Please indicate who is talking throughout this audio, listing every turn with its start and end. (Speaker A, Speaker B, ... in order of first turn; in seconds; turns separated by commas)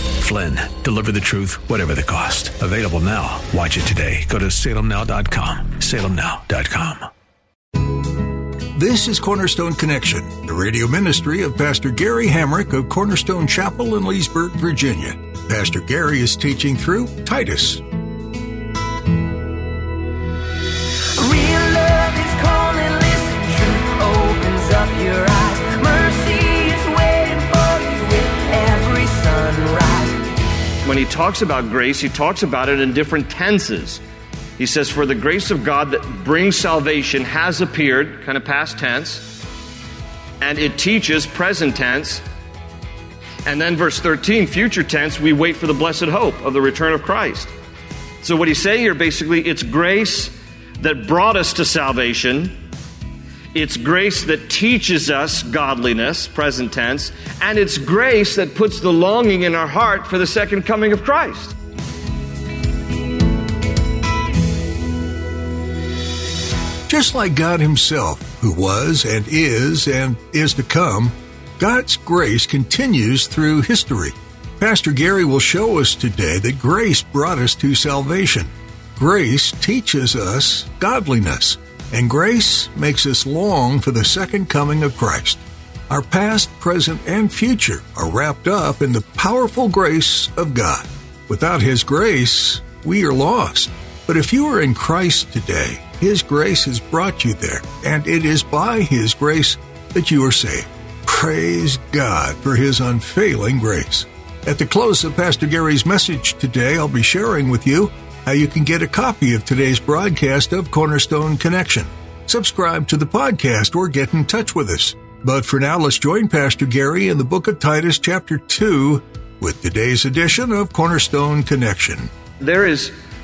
Speaker A: 0.2-7.1, Speaker B: 8.7-17.8, Speaker C: 21.2-30.3, Speaker D: 30.8-34.0, Speaker D: 34.6-39.3, Speaker D: 40.4-42.2, Speaker D: 43.5-47.5, Speaker D: 48.2-52.5, Speaker D: 53.5-61.5, Speaker B: 66.9-122.1, Speaker D: 122.4-122.9